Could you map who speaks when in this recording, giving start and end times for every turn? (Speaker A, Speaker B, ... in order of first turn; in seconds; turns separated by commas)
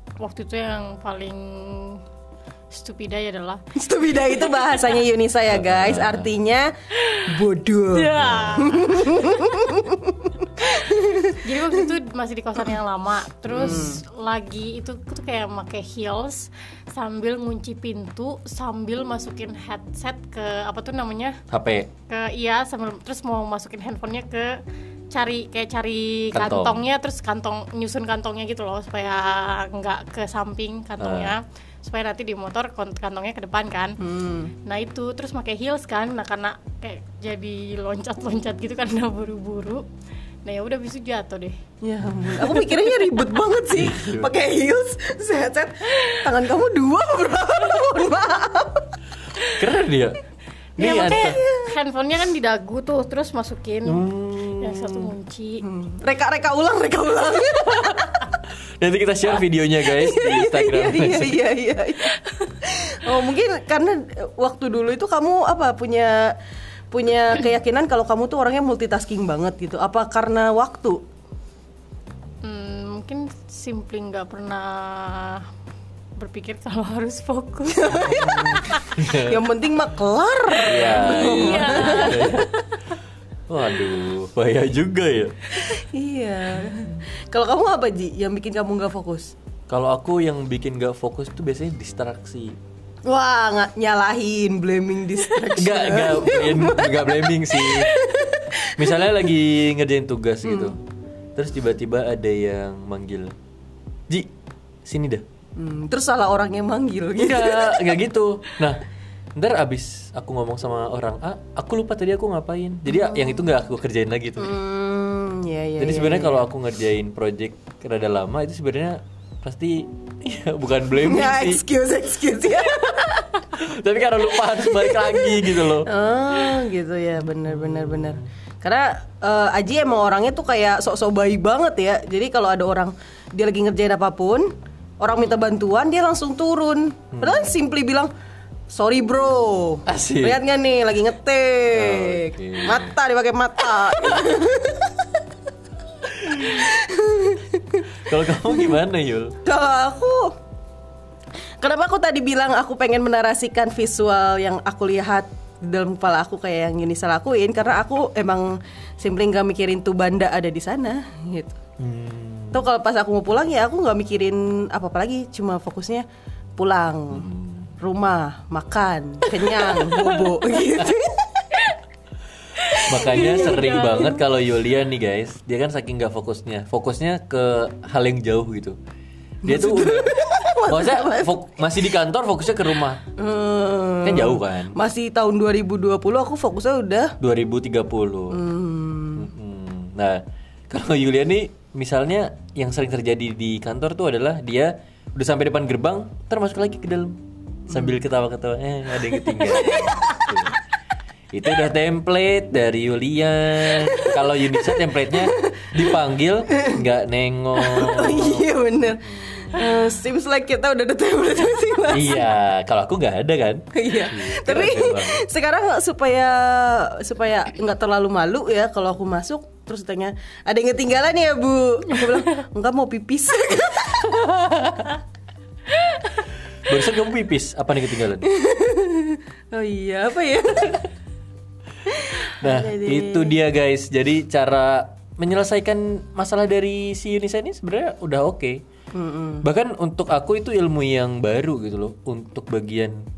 Speaker A: 0.2-2.0, Speaker A: 2.7-3.6, Speaker B: 3.7-11.7, Speaker A: 4.3-5.0, Speaker C: 5.5-6.3, Speaker A: 7.0-7.4, Speaker A: 7.9-9.8, Speaker C: 8.1-8.7, Speaker A: 10.8-21.4, Speaker B: 13.5-14.0, Speaker C: 21.5-21.9, Speaker A: 22.1-24.6, Speaker A: 25.1-34.0, Speaker C: 26.3-26.8, Speaker C: 31.0-31.3, Speaker B: 34.0-34.5, Speaker A: 34.6-39.8, Speaker A: 40.4-41.6, Speaker B: 41.8-48.9, Speaker C: 42.0-42.6, Speaker C: 43.7-44.3, Speaker C: 49.5-50.2, Speaker C: 50.8-51.4, Speaker B: 50.8-51.8, Speaker A: 50.8-54.1, Speaker C: 53.8-55.1, Speaker A: 54.6-55.6, Speaker B: 55.6-58.2, Speaker C: 58.8-61.4, Speaker B: 59.8-66.4, Speaker A: 62.2-62.5, Speaker B: 66.9-71.0, Speaker A: 72.4-75.5, Speaker A: 76.2-79.0, Speaker B: 77.7-82.5, Speaker C: 78.1-79.4, Speaker C: 80.6-82.5, Speaker A: 80.9-82.8, Speaker C: 83.5-85.6, Speaker B: 85.6-89.3, Speaker C: 89.7-92.6, Speaker B: 93.0-99.1, Speaker C: 95.5-100.8, Speaker B: 100.4-100.7, Speaker C: 101.3-103.3, Speaker C: 104.8-105.2, Speaker B: 105.5-107.9, Speaker C: 107.2-108.8, Speaker C: 109.3-114.5, Speaker B: 112.9-113.4, Speaker B: 114.4-116.4, Speaker C: 115.8-121.6, Speaker B: 121.0-123.5, Speaker C: 123.5-125.9, Speaker B: 124.8-138.1, Speaker C: 127.5-128.3, Speaker C: 137.1-137.6, Speaker B: 138.7-145.1, Speaker C: 139.9-140.4, Speaker C: 141.7-142.9, Speaker C: 146.2-146.5, Speaker B: 146.2-147.8, Speaker C: 148.0-149.4, Speaker B: 149.4-150.3, Speaker B: 151.6-161.6, Speaker C: 161.8-162.7, Speaker B: 162.5-166.1, Speaker B: 166.6-167.3, Speaker C: 167.1-167.7, Speaker B: 167.8-171.6, Speaker A: 172.6-174.2, Speaker B: 172.7-174.2, Speaker C: 172.8-178.8, Speaker C: 179.4-183.0, Speaker B: 179.4-181.5, Speaker B: 183.2-187.2, Speaker C: 184.0-184.8, Speaker C: 187.2-188.4, Speaker B: 188.3-189.3, Speaker C: 189.1-200.5, Speaker B: 199.3-200.4, Speaker C: 201.3-208.5, Speaker B: 203.9-204.2, Speaker B: 205.2-205.9, Speaker B: 206.5-206.8, Speaker B: 207.6-212.3, Speaker C: 209.0-209.8, Speaker C: 211.9-215.2, Speaker B: 213.7-225.0, Speaker C: 226.7-228.3, Speaker B: 228.2-230.9, Speaker B: 231.9-233.4, Speaker C: 232.4-238.6, Speaker B: 238.9-239.5, Speaker C: 239.4-243.1